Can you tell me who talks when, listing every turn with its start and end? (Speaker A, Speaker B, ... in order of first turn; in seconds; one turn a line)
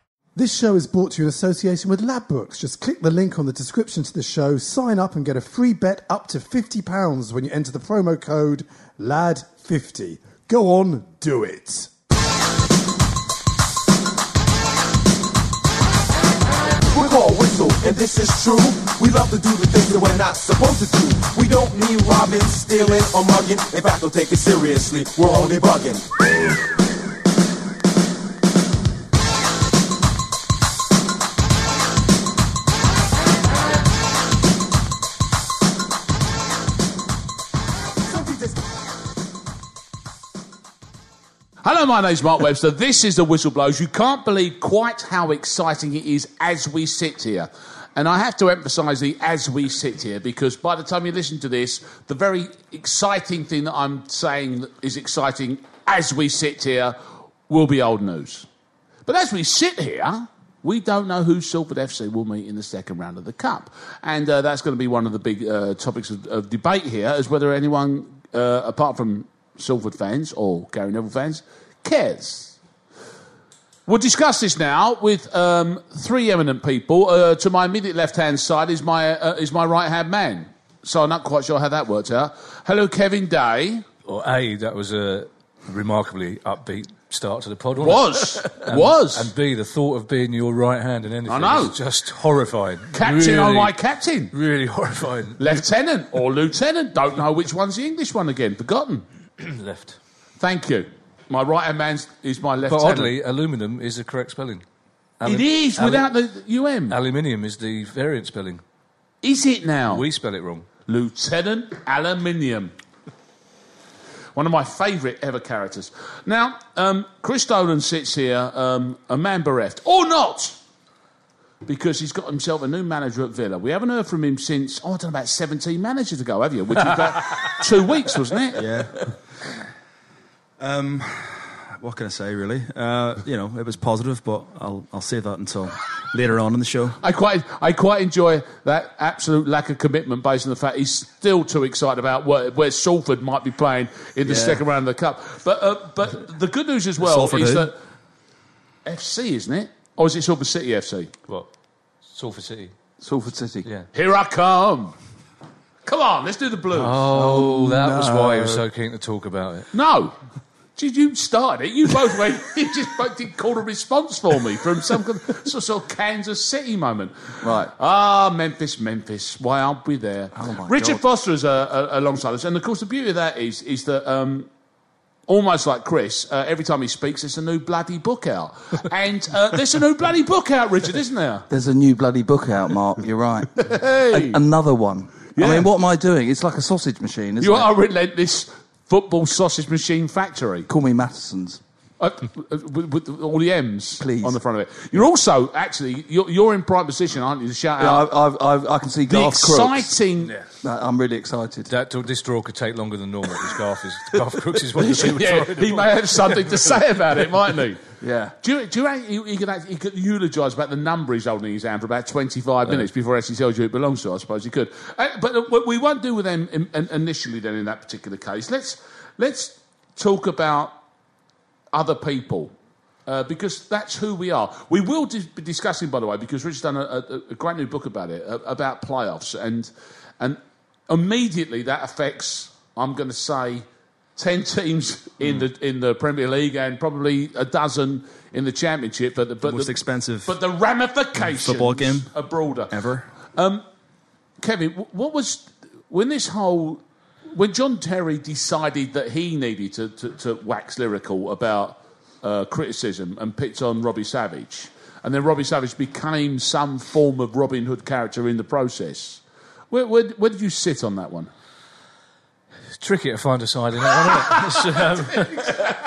Speaker A: 0.3-11.9
Speaker B: 16.9-26.1
Speaker C: 41.6-57.0
Speaker C: 57.5-58.5
Speaker C: 59.1-72.6
Speaker C: 73.9-83.8
Speaker D: 84.0-93.7
Speaker C: 87.8-89.3
Speaker C: 91.3-91.8
Speaker C: 92.9-94.3
Speaker D: 94.3-95.6
Speaker C: 95.4-99.0
Speaker D: 99.4-100.0
Speaker C: 100.4-103.1
Speaker D: 102.7-104.6
Speaker D: 105.2-106.1
Speaker C: 105.3-107.0
Speaker D: 106.9-108.6
Speaker C: 109.2-110.1
Speaker D: 109.9-110.7
Speaker C: 110.9-112.7
Speaker C: 114.4-120.6
Speaker C: 121.7-128.6
Speaker E: 128.6-129.2
Speaker E: 130.6-137.0
Speaker C: 137.0-147.8
Speaker E: 144.3-144.6
Speaker E: 147.0-147.7
Speaker C: 148.8-151.1
Speaker D: 152.1-152.8
Speaker F: 153.0-153.7
Speaker C: 153.9-154.9
Speaker C: 155.8-157.0
Speaker D: 156.7-159.7
Speaker F: 157.1-158.6
Speaker C: 159.7-160.1
Speaker C: 160.8-174.5
Speaker F: 167.4-167.7
Speaker F: 170.3-171.0
Speaker C: 175.3-181.5
Speaker F: 181.5-187.7
Speaker C: 183.6-184.4
Speaker C: 185.3-185.7
Speaker C: 187.4-190.7
Speaker F: 190.7-191.6
Speaker C: 192.0-198.1
Speaker F: 194.0-194.4
Speaker F: 197.8-199.9
Speaker C: 199.1-200.3
Speaker D: 200.2-200.5
Speaker F: 200.6-201.7
Speaker D: 201.7-206.6
Speaker F: 204.8-205.2
Speaker C: 205.0-207.8
Speaker F: 208.0-208.3
Speaker C: 208.4-220.7
Speaker C: 221.7-222.5
Speaker C: 223.1-233.6
Speaker C: 234.2-242.8
Speaker E: 239.4-240.3
Speaker E: 241.2-242.1
Speaker E: 242.7-243.1
Speaker C: 243.3-243.6
Speaker C: 244.4-261.3
Speaker D: 262.8-265.6
Speaker C: 264.0-264.5
Speaker C: 265.4-265.7